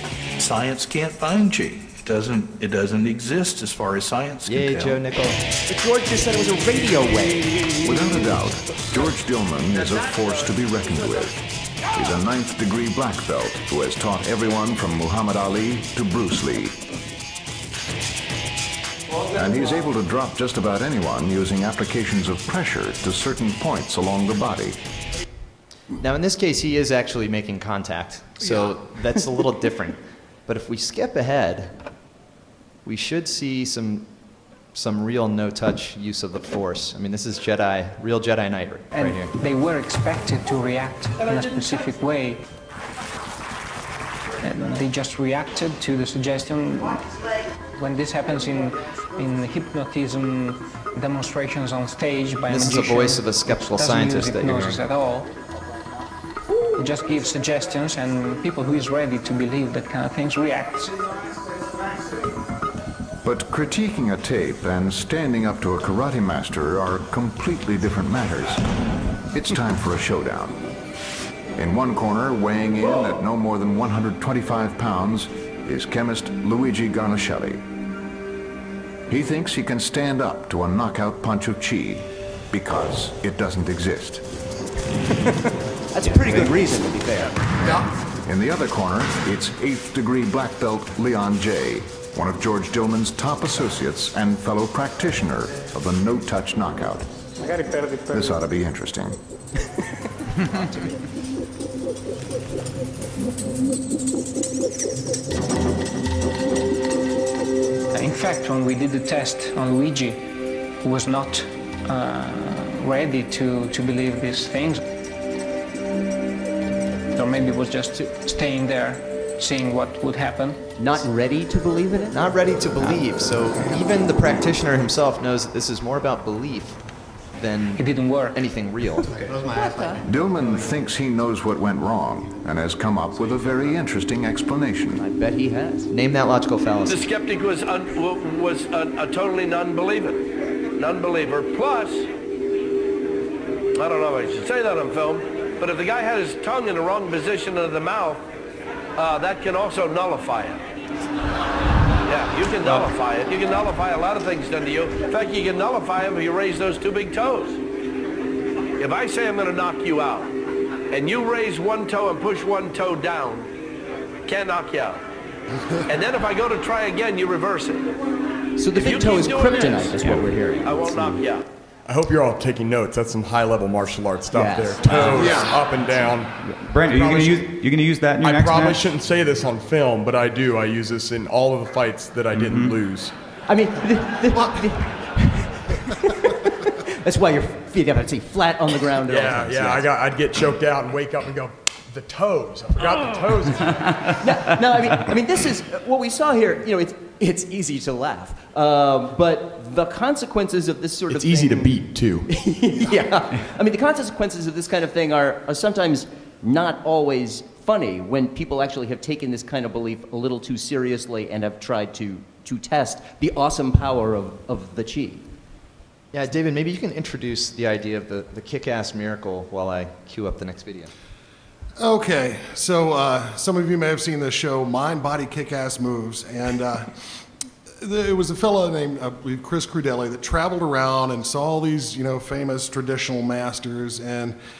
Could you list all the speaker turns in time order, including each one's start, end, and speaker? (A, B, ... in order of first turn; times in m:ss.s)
0:00.4-0:05.0 A
0:04.4-0:05.4 B
0:05.7-0:07.6 C
0:07.8-0:11.4 D
0:09.8-0:10.3 E
0:11.9-0:16.8 D
0:19.2-0:24.8 D
0:26.0-0:31.8 B
0:32.8-0:34.1 B
0:34.7-0:39.3 B
0:38.9-0:42.4 F
0:44.4-0:55.3 F
0:52.5-0:54.8 B
0:56.7-1:01.1 F
1:03.2-1:08.6 D
1:09.3-1:10.6 D
1:11.6-1:17.6 D
1:19.1-1:24.2 D
1:25.9-1:27.4 C
1:26.2-1:26.5 G
1:28.2-1:37.1 D
1:37.4-1:38.4 F
1:38.1-1:39.2 D
1:47.9-1:50.3 F
1:50.8-1:54.8 F
1:57.1-2:00.6 F
2:00.8-2:02.2 C
2:02.1-2:06.8 B
2:07.3-2:09.1 B
2:07.8-2:08.4 F
2:09.2-2:10.0 C
2:10.0-2:15.0 D
2:15.0-2:15.9 C
2:15.9-2:17.1 B
2:16.9-2:22.0 E
2:23.8-2:28.2 E
2:29.0-2:30.6 E
2:32.1-2:37.6 E
2:38.8-2:40.3 E
2:40.9-2:43.5 E
2:44.2-2:45.0 E
2:45.9-2:47.8 E
2:48.6-2:51.2 C
2:48.7-2:50.0 E
2:50.6-2:51.4 E
2:51.8-2:57.6 H
2:54.3-2:55.5 C
2:54.8-2:55.4 G
2:55.2-2:55.5 I
2:56.5-2:59.0 G
2:58.2-3:03.1 H
3:02.3-3:02.8 G
3:03.5-3:09.9 C
3:09.0-3:14.0 H
3:14.2-3:35.2 C
3:21.1-3:22.3 H
3:36.1-3:40.9 B
3:41.8-3:47.2 I
3:47.8-3:54.4 I